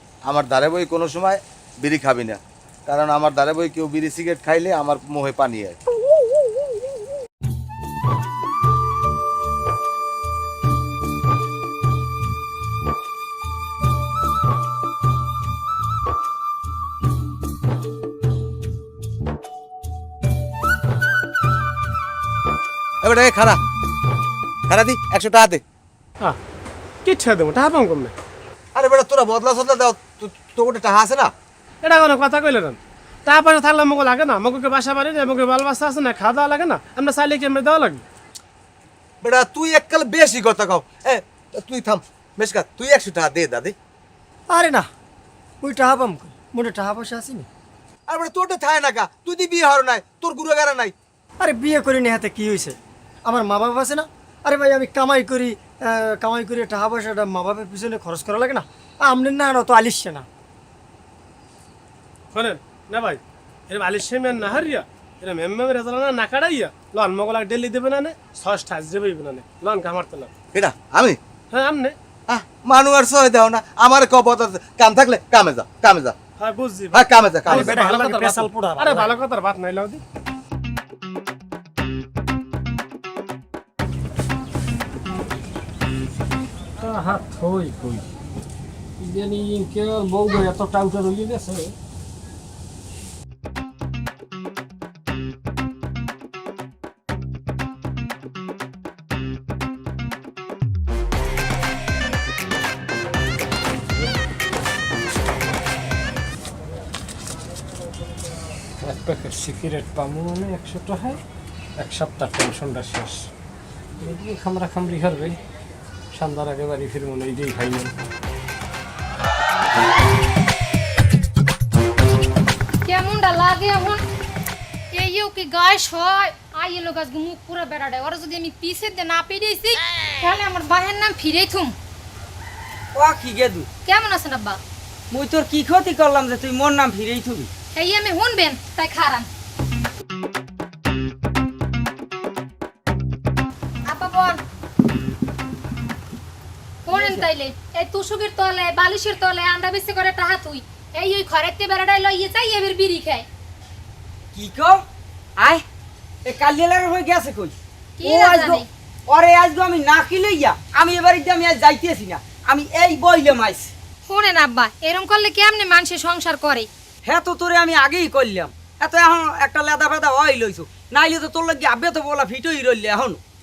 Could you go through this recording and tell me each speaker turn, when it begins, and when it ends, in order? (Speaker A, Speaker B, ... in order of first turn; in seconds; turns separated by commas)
Speaker A: 0.3-5.8, Speaker A: 23.0-23.6, Speaker A: 24.7-25.6, Speaker B: 27.1-28.1, Speaker A: 28.8-31.3, Speaker B: 31.8-38.0, Speaker A: 39.2-43.7, Speaker C: 44.5-44.9, Speaker C: 45.6-47.5, Speaker A: 48.1-50.9, Speaker C: 51.4-60.3, Speaker B: 62.3-70.3, Speaker A: 70.5-71.2, Speaker B: 71.5-72.0, Speaker A: 72.3-76.2, Speaker B: 76.4-80.0, Speaker A: 76.9-77.8, Speaker C: 77.5-79.1, Speaker D: 86.8-88.0, Speaker D: 89.0-91.8, Speaker D: 108.8-111.2, Speaker D: 111.8-113.3, Speaker D: 114.0-115.4, Speaker D: 116.1-117.9, Speaker E: 122.8-124.0, Speaker E: 124.9-131.8, Speaker F: 132.9-133.7, Speaker E: 133.9-134.6, Speaker F: 135.1-137.5, Speaker E: 137.8-139.3, Speaker E: 143.9-144.4, Speaker E: 146.9-153.3, Speaker F: 146.9-147.2, Speaker F: 154.3-154.8, Speaker F: 156.3-163.7, Speaker E: 158.0-158.7, Speaker E: 164.1-166.7, Speaker F: 167.1-173.2